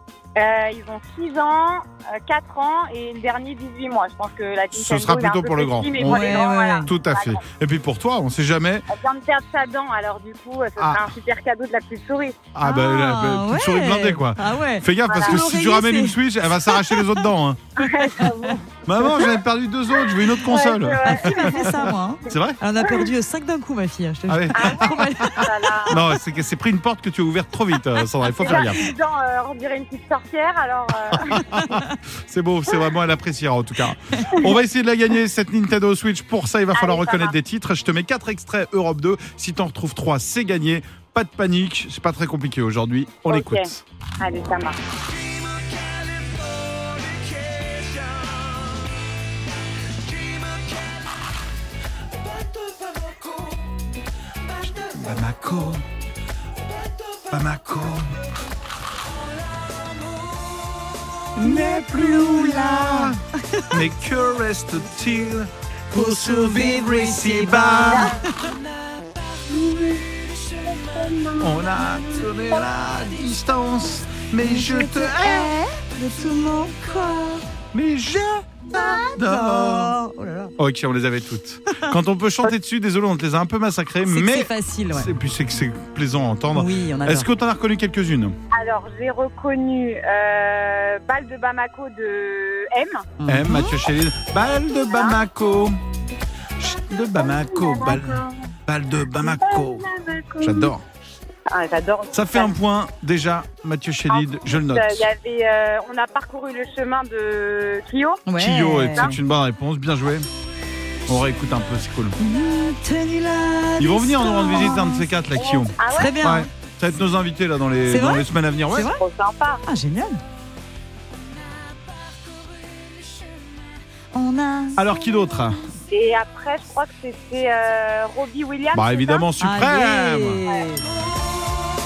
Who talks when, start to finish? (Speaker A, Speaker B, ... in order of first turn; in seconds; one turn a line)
Speaker A: 0.4-7.4
Speaker B: 4.7-8.8
Speaker C: 6.0-6.9
Speaker A: 8.9-12.5
Speaker B: 10.8-11.1
Speaker B: 12.5-17.6
Speaker C: 12.6-17.2
Speaker A: 15.1-15.4
Speaker A: 17.8-19.3
Speaker C: 17.9-18.5
Speaker B: 18.9-22.6
Speaker A: 20.4-21.9
Speaker C: 21.0-25.7
Speaker B: 24.3-28.9
Speaker A: 24.6-25.9
Speaker A: 28.4-31.6
Speaker B: 31.1-43.8
Speaker A: 36.8-37.3
Speaker A: 43.3-43.7
Speaker A: 44.2-44.8
Speaker B: 54.7-55.9
Speaker B: 57.3-58.1
Speaker B: 61.4-63.2
Speaker C: 61.4-63.8
Speaker B: 63.7-68.1
Speaker C: 65.9-68.5
Speaker A: 69.5-72.6
Speaker B: 71.4-75.5
Speaker C: 74.4-77.5
Speaker B: 77.7-80.0
Speaker C: 78.7-80.5
Speaker B: 80.6-88.3
Speaker C: 84.0-85.1
Speaker C: 86.5-87.3
Speaker A: 88.5-93.1
Speaker C: 93.2-93.8
Speaker B: 93.3-95.8
Speaker A: 94.9-95.2
Speaker B: 96.6-99.8
Speaker A: 97.2-98.3
Speaker A: 99.2-100.7
Speaker B: 100.4-100.8
Speaker A: 101.5-102.5
Speaker B: 102.1-105.1
Speaker A: 104.1-108.3
Speaker C: 108.3-109.1
Speaker B: 108.4-110.3
Speaker B: 111.1-112.2
Speaker C: 112.2-115.1
Speaker B: 113.8-118.9
Speaker A: 115.4-116.2
Speaker C: 116.0-116.5
Speaker C: 117.9-119.0
Speaker A: 118.8-119.6
Speaker C: 119.7-120.2
Speaker C: 124.1-124.9
Speaker B: 124.8-125.6
Speaker A: 125.9-129.3
Speaker B: 128.7-130.4
Speaker C: 129.4-130.8